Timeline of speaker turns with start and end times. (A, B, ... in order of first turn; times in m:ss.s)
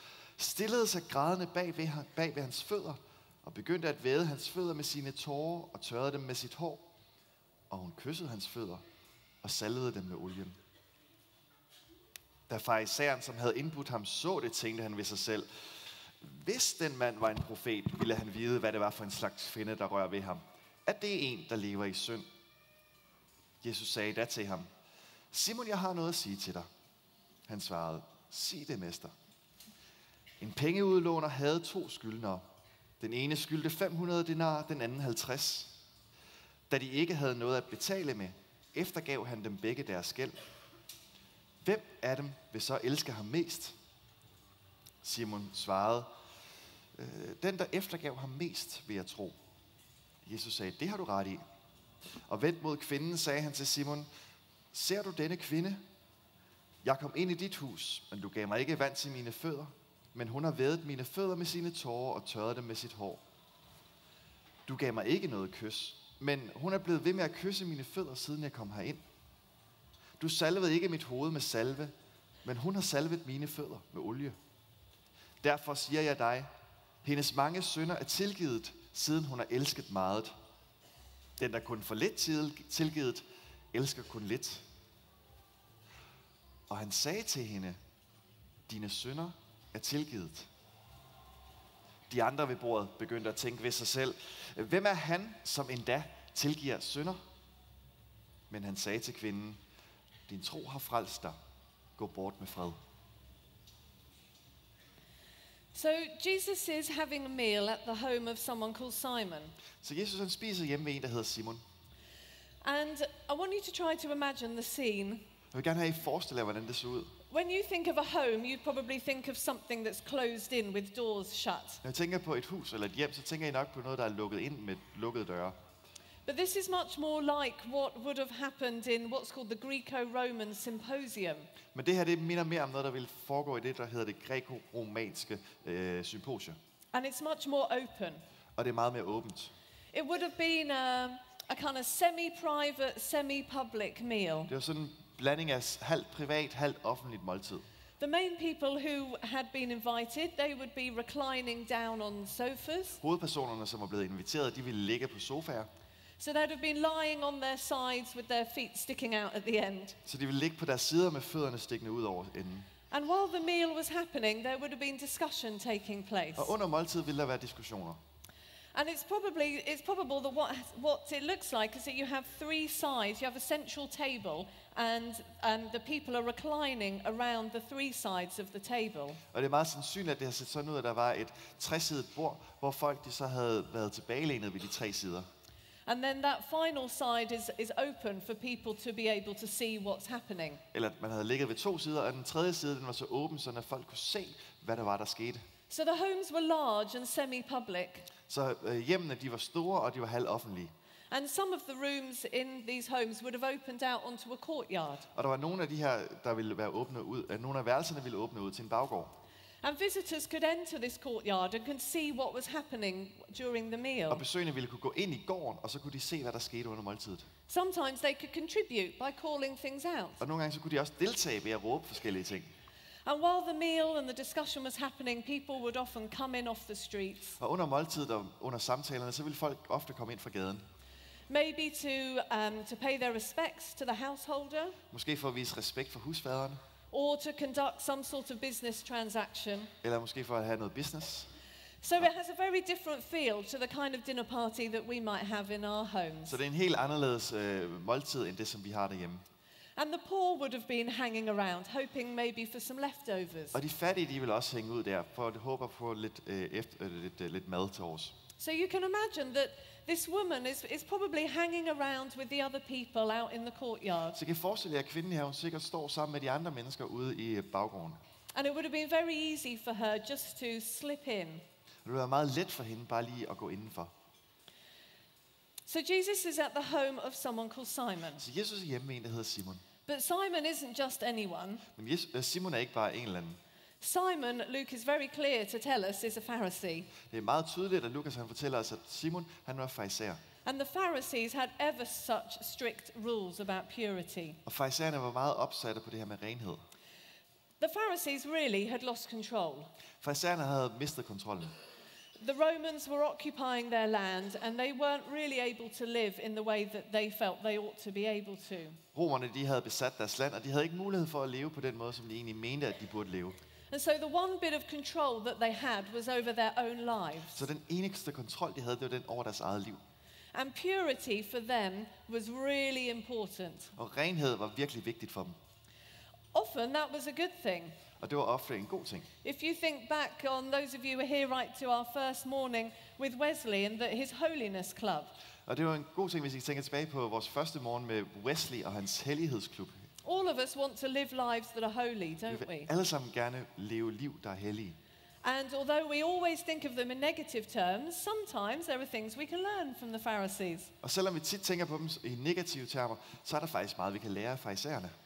0:00.4-0:06.9 A
0:07.7-0:08.8 A
0:09.4-0:10.6 A
0:12.5-0:22.3 A
0:23.6-0:24.7 A
0:25.3-0:26.7 A
0:27.5-0:29.1 A
0:30.4-0:32.4 A
0:33.0-0:35.8 A
0:36.7-0:40.4 A
0:41.6-0:43.8 A
0:45.0-0:46.1 A
0:46.9-0:49.4 A
0:50.2-0:51.4 A
0:52.3-0:54.1 A
0:54.7-0:55.8 A
0:56.8-1:03.2 A
1:04.7-1:09.0 A
1:10.2-1:11.9 A
1:12.4-1:14.4 A
1:15.4-1:16.5 A
1:17.0-1:20.3 A
1:21.4-1:24.6 A
1:26.7-1:27.8 A
1:28.7-1:30.5 A
1:32.1-1:37.2 A
1:38.5-1:39.6 A
1:40.3-1:41.4 A
1:42.0-1:42.8 A
1:45.7-1:49.5 B
1:49.8-1:51.6 A
1:52.6-1:55.2 B
1:55.5-1:57.1 A
1:57.3-2:01.8 B
2:01.8-2:05.5 A
2:06.2-2:11.5 B
2:11.7-2:16.6 A
2:16.9-2:18.2 B
2:18.6-2:19.5 A
2:19.9-2:24.5 B
2:24.5-2:27.6 A
2:28.0-2:33.0 B
2:33.0-2:35.7 A
2:36.2-2:40.0 B
2:40.0-2:42.7 A
2:42.9-2:46.5 B
2:46.4-2:48.0 A
2:48.7-2:59.2 B
2:59.3-3:05.2 A
3:05.8-3:10.6 B
3:10.7-3:15.4 A
3:15.7-3:18.1 B
3:18.3-3:20.7 A
3:21.1-3:25.1 B
3:25.1-3:29.2 A
3:29.6-3:34.2 B
3:34.1-3:37.3 A
3:37.5-3:40.2 B
3:40.2-3:42.5 A
3:43.0-3:47.4 B
3:47.4-3:50.6 A
3:51.3-3:54.8 B
3:54.9-3:56.6 A
3:56.9-3:59.7 B
3:59.8-4:01.3 A
4:01.8-4:06.4 B
4:06.3-4:09.2 A
4:09.8-4:13.6 B
4:13.5-4:18.2 A
4:18.4-4:24.2 B
4:24.1-4:28.0 A
4:28.3-4:31.4 B
4:31.8-4:33.9 A
4:35.6-4:38.2 B
4:38.2-4:39.6 A
4:39.8-4:41.6 B
4:41.8-4:43.4 A
4:43.8-4:46.9 B
4:47.0-4:50.2 A
4:50.4-4:54.4 B
4:54.4-4:56.6 A
4:57.6-4:59.7 B
5:00.0-5:01.5 A
5:02.2-5:08.8 B
5:08.9-5:13.4 A
5:13.7-5:17.4 B
5:17.3-5:19.8 A
5:20.3-5:23.7 B
5:23.7-5:25.4 A
5:26.3-5:27.8 B
5:28.0-5:29.1 A
5:29.2-5:35.2 B
5:35.4-5:39.7 A
5:40.0-5:42.7 B
5:42.3-5:44.8 A
5:45.2-5:50.7 B
5:50.8-5:54.9 A